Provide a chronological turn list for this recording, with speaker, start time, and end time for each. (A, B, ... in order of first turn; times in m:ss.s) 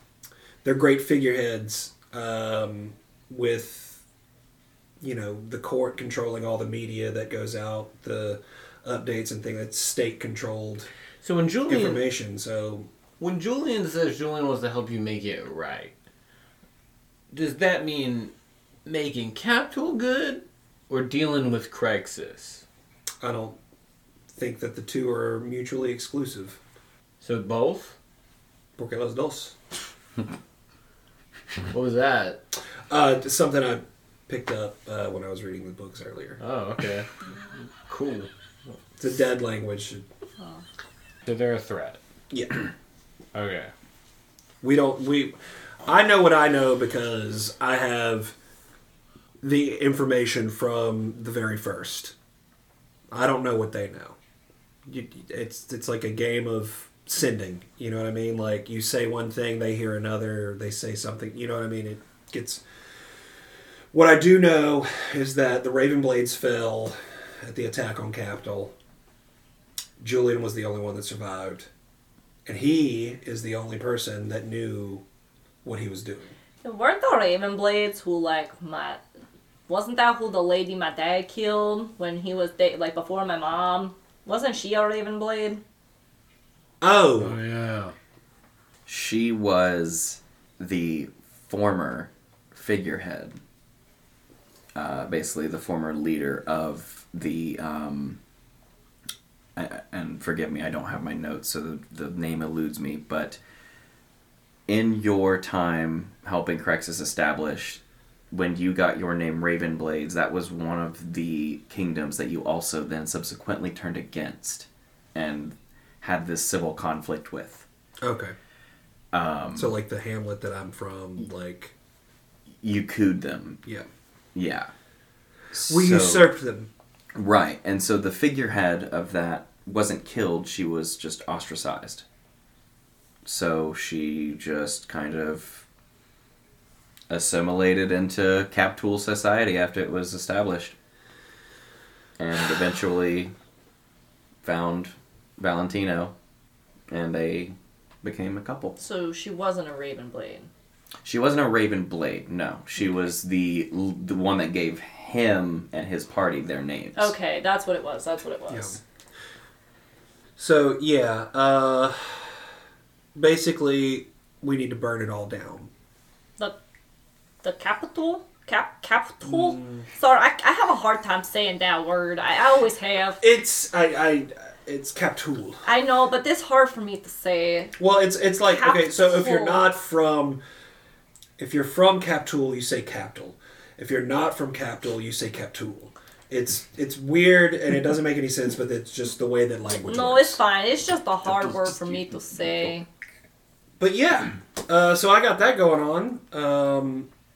0:00.6-0:04.0 A
0:05.0-0:10.9 A
0:11.2-0:12.0 B
0:11.7-0:12.9 A
0:13.2-0:16.0 B
0:17.3-0:18.3 B
0:18.9-0:22.6 B
0:23.2-0:23.6 A
0:24.3-0:26.6 A
0:27.2-0:28.0 B
0:28.8-0:29.6 A
0:31.7-0:32.4 B
0:32.9-0:36.4 A
0:36.4-0:37.1 B
0:37.8-0:38.3 B
0:39.0-0:40.1 A
0:41.2-0:42.0 B
0:42.3-0:42.6 A
0:43.3-0:43.7 B
0:44.6-0:45.3 A
0:45.8-0:48.4 A
0:49.4-0:52.2 A
0:53.1-0:54.2 A
0:54.9-1:02.6 A
1:03.9-1:08.8 A
1:10.0-1:11.7 A
1:12.5-1:15.0 A
1:15.6-1:16.4 A
1:16.6-1:19.0 C
1:19.7-1:25.6 C
1:26.8-1:27.4 A
1:27.2-1:28.0 B
1:28.9-1:33.4 D
1:34.8-1:38.2 D
1:39.6-1:43.4 D
1:44.7-1:57.7 D
1:58.0-1:58.4 A
1:59.1-1:59.8 D
1:59.5-2:01.7 A
2:02.6-2:03.6 D
2:04.4-2:04.7 D
2:05.5-2:06.3 D
2:05.7-2:06.7 A
2:07.2-2:12.0 D
2:13.2-2:15.7 D
2:17.1-2:20.8 D
2:22.2-2:23.3 D
2:24.4-2:26.1 D
2:26.9-2:28.8 D
2:28.8-2:30.5 C
2:31.0-2:37.1 D
2:37.0-2:38.8 C
2:38.5-2:38.8 A
2:40.4-2:42.5 A
2:43.2-2:45.7 A
2:47.4-2:53.2 C
2:49.2-2:49.9 A
2:53.2-2:55.6 A
2:55.6-2:57.8 C
2:57.8-3:00.4 A
2:58.5-2:59.6 C
3:01.4-3:10.4 A
3:09.7-3:12.9 C
3:11.3-3:12.7 D
3:13.8-3:17.1 A